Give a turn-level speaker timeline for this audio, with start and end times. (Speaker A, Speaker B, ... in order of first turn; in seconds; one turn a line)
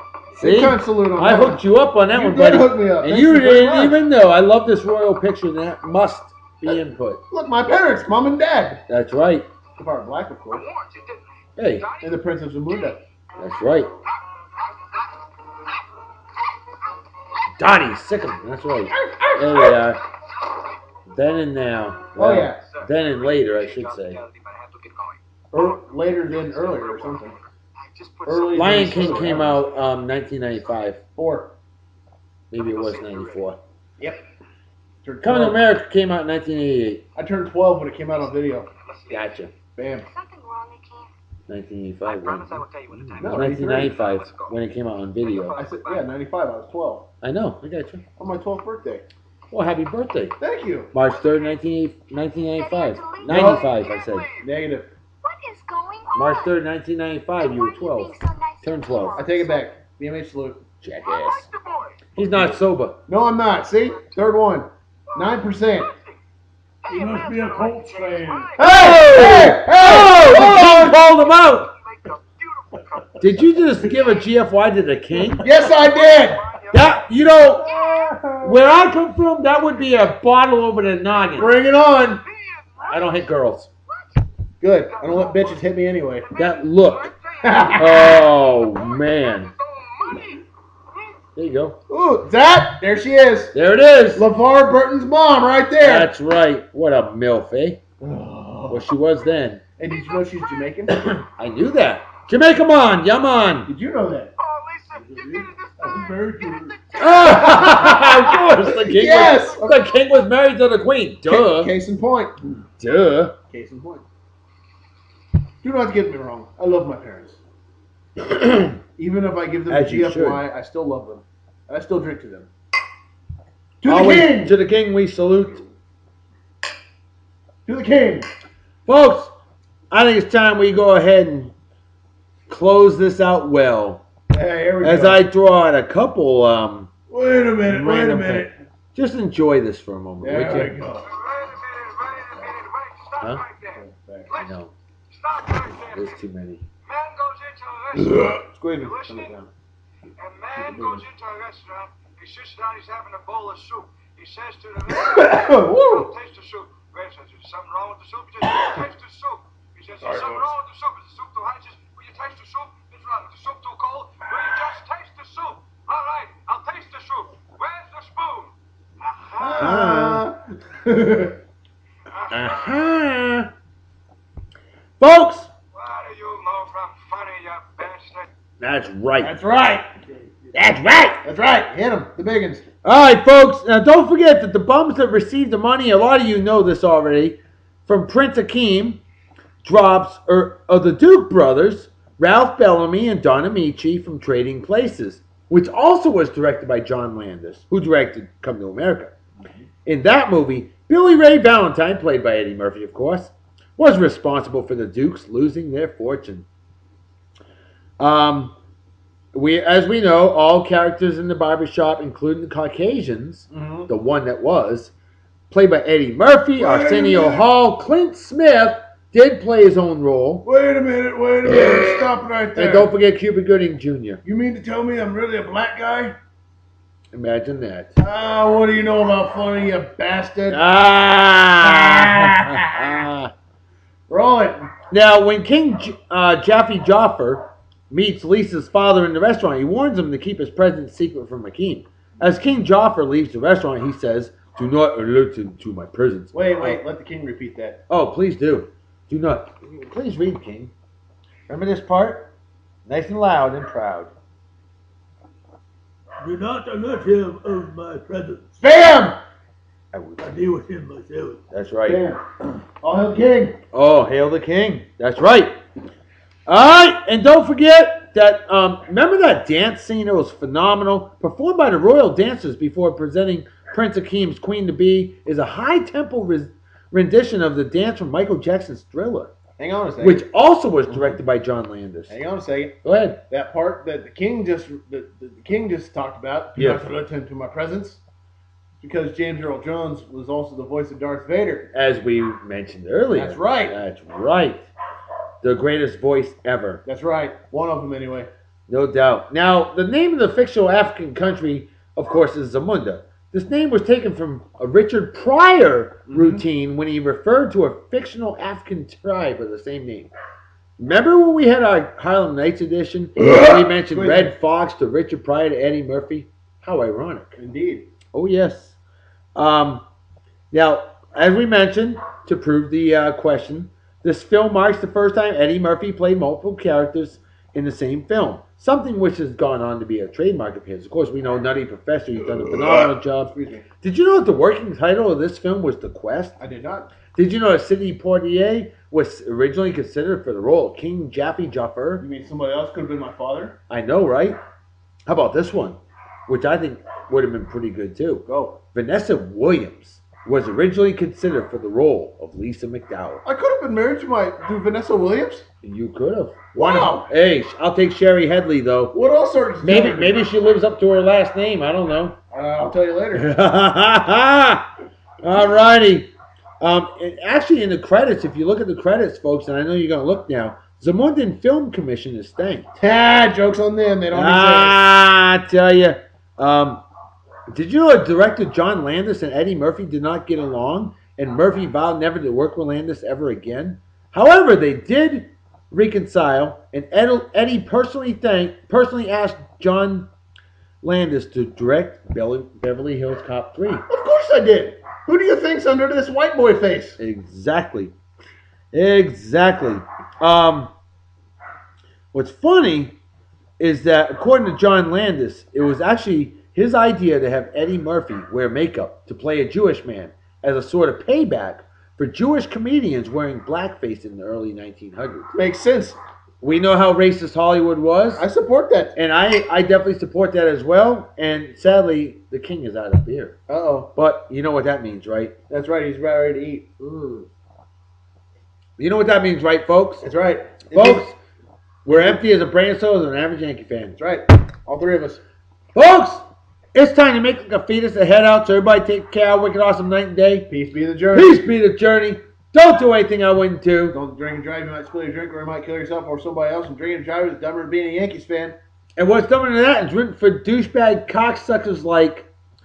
Speaker A: 0.3-4.0
Speaker B: 0.4-7.2
Speaker A: 7.3-8.8
Speaker B: 8.9-9.5
Speaker A: 9.8-10.6
Speaker C: 10.5-13.0
Speaker B: 11.6-11.8
Speaker A: 12.0-13.0
Speaker B: 13.4-13.9
Speaker C: 14.6-15.2
Speaker B: 17.6-20.0
Speaker C: 19.0-20.8
Speaker B: 21.1-24.2
Speaker A: 22.1-22.6
Speaker C: 22.6-29.9
Speaker A: 25.5-27.3
Speaker A: 28.2-29.6
Speaker B: 28.5-31.0
Speaker A: 31.1-31.5
Speaker B: 32.5-33.6
Speaker C: 32.5-34.2
Speaker A: 35.0-35.6
Speaker B: 35.2-37.0
Speaker A: 37.1-38.7
Speaker C: 38.2-39.4
Speaker B: 39.1-39.5
Speaker A: 39.8-40.1
Speaker D: 40.0-41.1
Speaker B: 41.5-45.6
Speaker C: 42.0-44.6
Speaker A: 43.2-44.0
Speaker C: 45.2-46.1
Speaker A: 45.5-47.1
Speaker B: 47.2-48.0
Speaker A: 48.2-49.0
Speaker B: 49.5-50.4
Speaker A: 50.4-50.9
Speaker B: 50.9-54.3
Speaker D: 51.0-51.6
Speaker D: 52.5-53.9
Speaker A: 53.3-53.6
Speaker C: 53.6-54.5
Speaker A: 54.4-54.9
Speaker D: 55.2-56.5
Speaker B: 56.1-59.2
Speaker D: 57.4-59.8
Speaker A: 59.1-60.6
Speaker B: 60.8-61.5
Speaker C: 61.0-62.1
Speaker B: 62.1-63.0
Speaker A: 63.1-65.9
Speaker C: 65.1-66.2
Speaker C: 66.8-74.0
Speaker E: 66.8-68.6
Speaker A: 68.6-71.0
Speaker B: 68.6-71.7
Speaker B: 73.2-75.5
Speaker C: 75.4-77.1
Speaker A: 75.4-76.4
Speaker B: 76.7-77.7
Speaker C: 77.6-78.2
Speaker A: 77.6-78.6
Speaker B: 78.4-81.5
Speaker C: 81.2-83.3
Speaker A: 81.3-82.2
Speaker B: 82.9-83.7
Speaker C: 83.9-91.2
Speaker A: 84.6-86.3
Speaker B: 86.3-87.1
Speaker A: 87.4-88.2
Speaker B: 87.7-89.5
Speaker B: 91.3-91.8
Speaker A: 91.9-93.5
Speaker B: 93.5-94.2
Speaker A: 94.1-96.1
Speaker B: 95.8-97.8
Speaker A: 98.0-98.9
Speaker B: 98.7-99.6
Speaker A: 99.8-101.0
Speaker C: 99.9-100.3
Speaker B: 100.9-103.7
Speaker A: 103.7-104.3
Speaker C: 104.4-110.0
Speaker E: 105.0-107.0
Speaker B: 107.0-111.7
Speaker A: 107.2-109.8
Speaker A: 111.3-112.4
Speaker B: 112.8-113.3
Speaker A: 113.5-114.0
Speaker A: 115.6-117.4
Speaker B: 118.2-118.8
Speaker A: 119.0-122.5
Speaker B: 119.7-120.4
Speaker A: 123.8-124.5
Speaker B: 123.8-125.6
Speaker A: 127.6-128.3
Speaker B: 128.9-129.3
Speaker B: 129.9-131.5
Speaker B: 132.5-134.0
Speaker A: 134.3-135.2
Speaker B: 134.8-136.9
Speaker A: 137.1-138.5
Speaker B: 137.6-140.8
Speaker A: 140.2-141.1
Speaker C: 141.0-144.6
Speaker A: 143.7-144.3
Speaker B: 144.3-144.7
Speaker C: 145.1-146.2
Speaker B: 145.9-146.6
Speaker C: 146.8-149.3
Speaker A: 148.0-149.5
Speaker C: 150.2-169.8
Speaker A: 150.6-151.0
Speaker A: 154.9-156.1
Speaker A: 169.4-171.4
Speaker B: 169.6-170.2
Speaker C: 172.1-172.9
Speaker B: 172.3-173.5
Speaker B: 175.0-175.5
Speaker C: 175.7-178.3
Speaker B: 178.6-179.3
Speaker A: 179.2-179.9
Speaker B: 180.5-181.2
Speaker A: 181.2-182.7
Speaker B: 182.8-189.0
Speaker B: 189.6-199.1
Speaker B: 199.8-206.4
Speaker B: 208.0-208.5
Speaker B: 209.3-214.9
Speaker A: 213.5-213.9
Speaker B: 215.5-220.4
Speaker A: 216.6-217.5
Speaker A: 220.4-222.9
Speaker B: 222.6-224.2
Speaker A: 224.2-226.2
Speaker B: 227.1-227.9
Speaker A: 228.0-230.6
Speaker B: 230.5-233.3
Speaker A: 231.6-233.1
Speaker A: 234.1-234.7
Speaker B: 234.9-246.8
Speaker A: 246.3-247.8
Speaker B: 247.9-250.7
Speaker B: 251.5-252.3
Speaker B: 252.8-254.1
Speaker E: 256.2-258.6
Speaker A: 258.6-259.2
Speaker B: 259.9-260.2
Speaker E: 260.2-261.4
Speaker B: 261.5-262.0
Speaker A: 261.8-262.2
Speaker A: 262.8-263.6
Speaker B: 263.7-265.6
Speaker B: 266.5-279.3
Speaker A: 279.6-280.2
Speaker B: 280.0-282.2
Speaker A: 280.9-281.1
Speaker A: 282.1-282.8
Speaker B: 282.8-283.2
Speaker A: 283.3-288.0
Speaker B: 286.6-286.8
Speaker A: 288.8-291.7
Speaker B: 291.7-294.7
Speaker A: 293.1-293.8
Speaker B: 295.4-296.8
Speaker A: 296.9-298.3
Speaker B: 298.7-310.1
Speaker A: 306.1-306.4
Speaker B: 310.8-317.4
Speaker A: 313.3-314.3
Speaker A: 317.4-317.9
Speaker B: 318.1-318.8
Speaker B: 319.3-319.8
Speaker B: 320.5-336.4
Speaker A: 332.5-333.6
Speaker A: 336.4-336.9
Speaker B: 337.1-342.0
Speaker A: 342.0-343.6
Speaker B: 343.7-344.4
Speaker B: 345.1-353.2
Speaker A: 348.2-348.6
Speaker A: 353.2-355.4
Speaker B: 355.6-358.9
Speaker A: 356.5-357.1
Speaker A: 358.9-360.3
Speaker B: 359.6-362.2
Speaker A: 362.3-363.3
Speaker B: 363.1-364.7
Speaker B: 365.2-372.8
Speaker A: 372.8-374.8
Speaker B: 374.1-376.8
Speaker B: 377.5-390.1
Speaker B: 390.8-393.8
Speaker A: 393.9-397.0
Speaker B: 397.0-397.9
Speaker B: 398.7-400.7
Speaker B: 402.1-402.9
Speaker B: 403.6-415.3
Speaker A: 415.3-416.0
Speaker B: 416.4-418.2
Speaker A: 418.1-418.9
Speaker B: 418.9-423.4
Speaker A: 423.5-423.9
Speaker B: 423.9-425.3
Speaker A: 425.5-427.2
Speaker B: 428.8-430.1
Speaker A: 430.0-431.1
Speaker B: 430.7-431.1
Speaker B: 431.8-434.0
Speaker A: 431.9-432.2
Speaker A: 434.0-435.2
Speaker B: 435.7-440.5
Speaker A: 440.5-441.4
Speaker B: 441.1-444.0
Speaker A: 443.9-448.6
Speaker B: 449.0-452.3